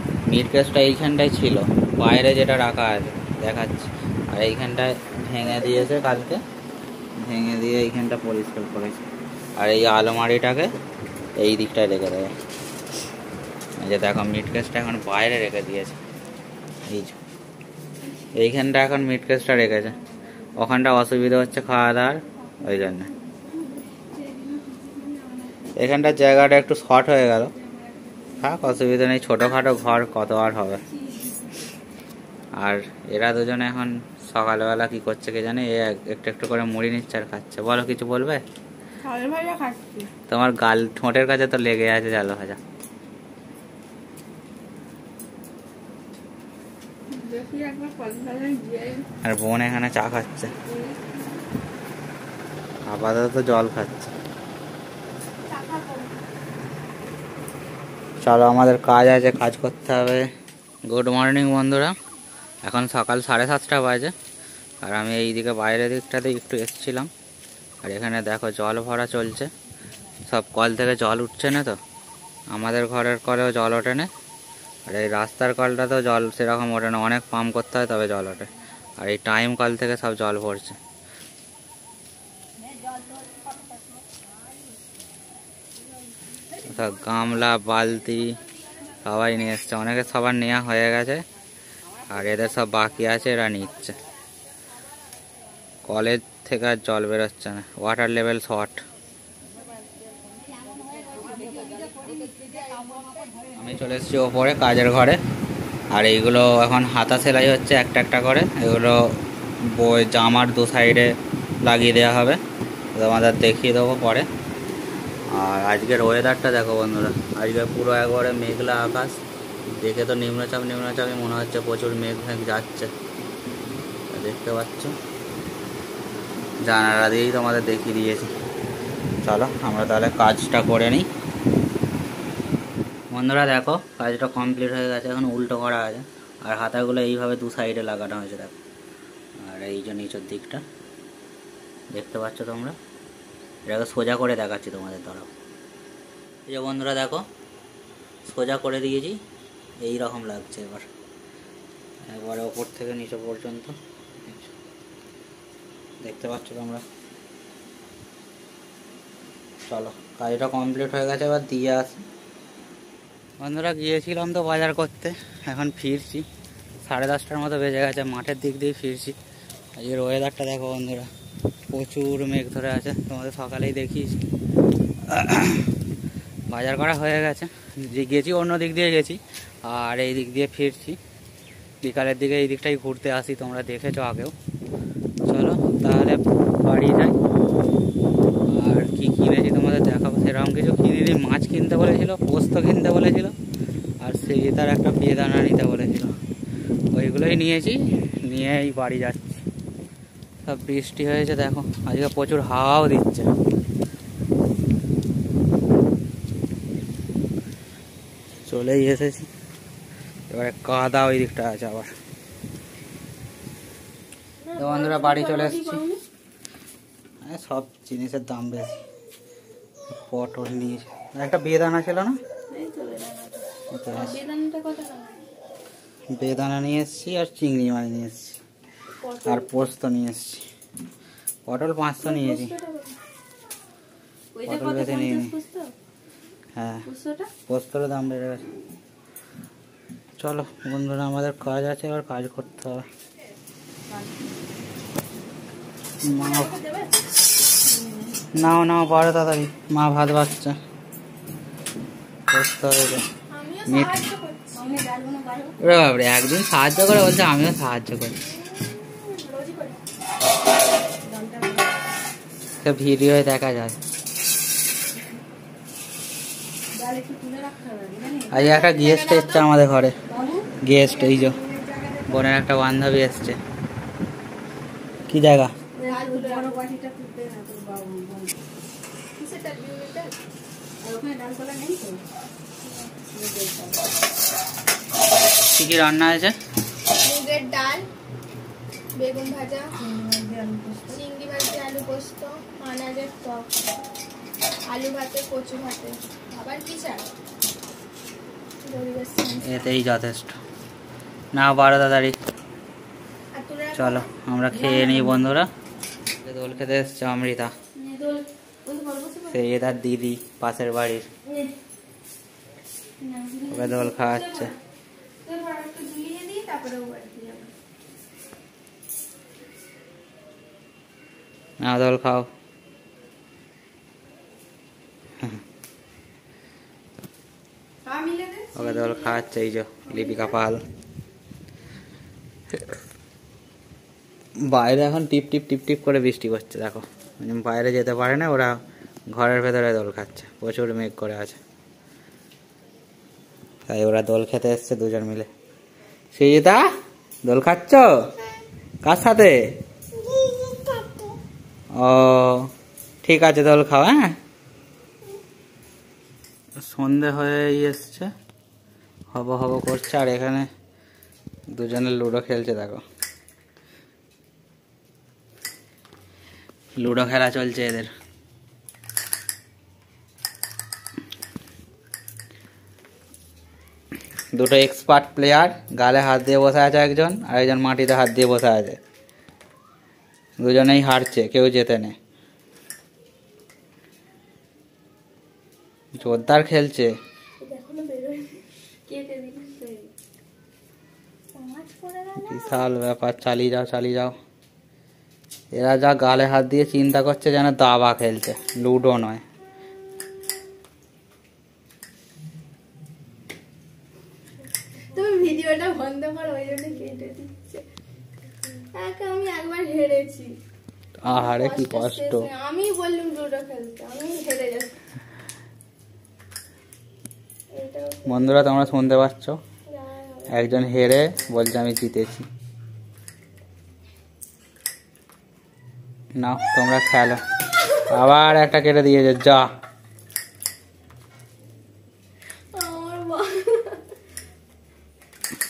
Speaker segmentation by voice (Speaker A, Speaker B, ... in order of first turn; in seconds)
Speaker A: 0.3-6.4, 7.2-9.0, 9.6-10.7, 11.4-12.3, 13.8-16.0, 16.9-17.2, 18.4-20.0, 20.6-23.1, 25.8-27.5, 28.4-30.8, 32.6-38.4, 40.3-42.6, 49.2-50.5, 52.9-54.1, 58.2-60.3, 60.9-61.9, 62.6-64.1, 64.8-67.1, 67.8-69.5, 70.3-71.8, 72.5-74.1, 74.9-80.8, 86.7-88.4, 89.0-91.2, 92.1-94.0, 95.8-98.8, 103.6-105.2, 105.9-112.4, 113.0-114.3, 115.3-119.2, 119.8-122.9, 124.1-125.0, 126.6-128.3, 129.2-131.1, 133.1-138.6, 139.4-140.6, 141.9-142.8, 143.7-145.3, 146.5-147.2, 148.2-149.2, 149.8-150.9, 152.1-154.5, 156.0-156.8, 159.7-162.1, 163.4-166.3, 166.8-169.2, 169.8-171.1, 171.7-174.2, 175.1-175.7, 176.5-181.0, 181.8-184.3, 185.3-187.2, 188.5-193.3, 194.0-196.1, 196.9-199.4, 200.5-203.3, 208.5-209.3, 210.3-211.9, 214.6-215.8, 217.3-218.8, 219.9-222.2, 223.7-224.2, 226.1-228.4, 229.2-230.4, 231.5-232.5, 234.5-235.3, 236.6-236.8, 237.5-238.4, 240.2-242.8, 246.0-246.5, 248.3-250.6, 252.3-253.0, 255.6-258.2, 262.6-263.8, 268.3-269.9, 270.6-271.4, 272.1-273.4, 275.1-275.5, 285.5-286.4, 299.4-300.4, 301.3-302.2, 303.7-305.5, 306.2-307.5, 309.3-311.1, 313.5-314.5, 321.6-322.3, 328.6-330.6, 334.4-341.4, 343.7-345.3, 346.1-346.6, 347.2-347.9, 348.8-349.4, 351.8-352.5, 353.0-354.2, 356.6-358.1, 359.1-360.5, 361.5-362.8, 366.8-367.9, 374.3-378.8, 380.4-381.9, 385.9-386.9, 392.2-394.2, 395.5-399.2, 411.0-412.3, 418.1-419.4, 420.3-422.3, 426.2-427.2, 427.8-429.5
Speaker B: 5.5-5.9, 22.4-25.3, 27.5-28.4, 214.5-216.0, 222.7-223.1, 223.9-225.2, 229.0-229.5, 232.0-233.0, 234.4-235.7, 236.9-237.3, 246.1-246.9, 253.3-254.7, 258.3-259.8, 268.3-269.5, 275.8-276.6, 279.2-280.1, 282.6-283.0, 287.0-287.9, 288.9-289.8, 290.9-293.5, 294.7-297.1, 298.6-299.6, 303.3-304.1, 307.8-308.2, 313.0-314.6, 315.2-317.5, 327.9-329.3, 329.9-330.4, 350.0-351.2, 387.4-389.9, 391.3-392.7, 404.9-407.6, 408.7-410.4, 411.1-414.8, 417.5-418.6, 419.7-420.4, 432.5-433.8
Speaker C: 39.0-40.1, 47.1-49.0, 50.7-51.2, 55.5-56.0, 100.9-102.7, 222.5-223.4, 234.4-235.0, 243.9-244.3, 247.7-248.2, 254.5-255.6, 261.0-261.8, 266.7-268.4, 270.1-272.2, 275.8-278.4, 280.8-282.0, 283.1-283.8, 289.8-291.0, 304.6-305.2, 308.6-309.3